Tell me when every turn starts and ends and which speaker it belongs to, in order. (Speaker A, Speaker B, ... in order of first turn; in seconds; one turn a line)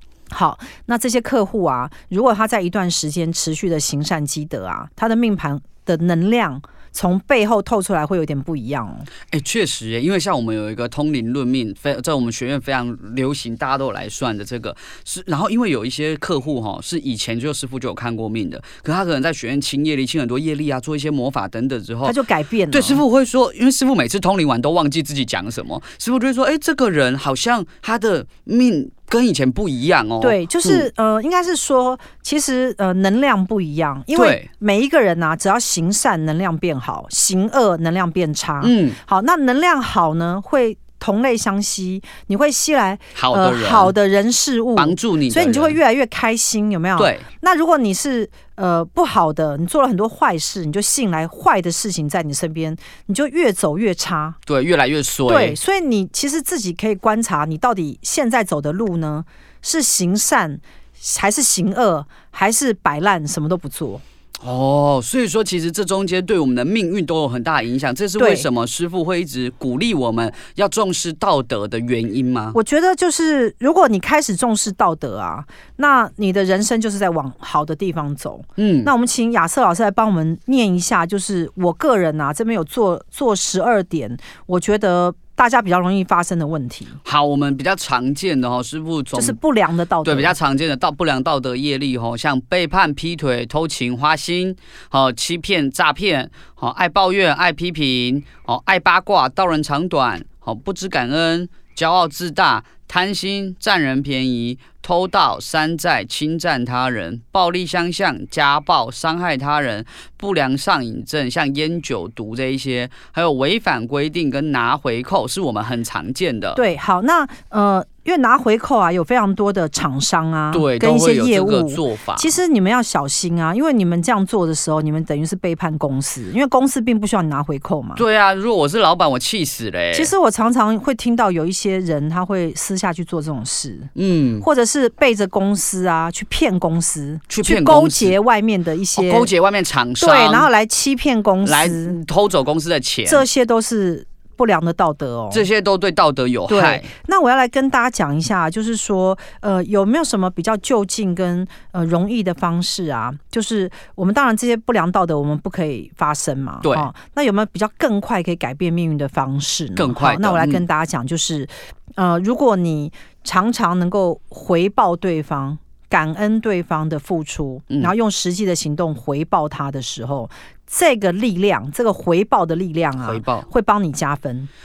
Speaker A: 0.3-9.1
Speaker B: 9.3-22.2
Speaker A: 22.1-23.0
Speaker B: 22.7-30.9
Speaker A: 30.2-54.4
Speaker B: 34.1-34.5
Speaker B: 38.6-39.0
Speaker B: 43.1-43.9
Speaker B: 44.8-45.8
Speaker B: 47.0-47.2
Speaker B: 54.5-55.6
Speaker A: 55.3-64.0
Speaker B: 64.4-72.6
Speaker A: 68.2-68.5
Speaker A: 72.5-87.0
Speaker B: 78.6-78.9
Speaker B: 87.0-89.4
Speaker A: 89.1-90.3
Speaker B: 90.0-116.6
Speaker A: 116.6-128.0
Speaker B: 120.5-122.3
Speaker B: 128.0-130.1
Speaker A: 129.9-139.3
Speaker B: 134.0-134.5
Speaker B: 137.3-138.2
Speaker B: 138.9-140.5
Speaker A: 140.0-142.0
Speaker B: 141.4-143.3
Speaker A: 143.1-145.4
Speaker B: 145.3-146.9
Speaker A: 146.5-174.5
Speaker B: 156.6-156.9
Speaker B: 159.8-160.7
Speaker B: 173.0-173.5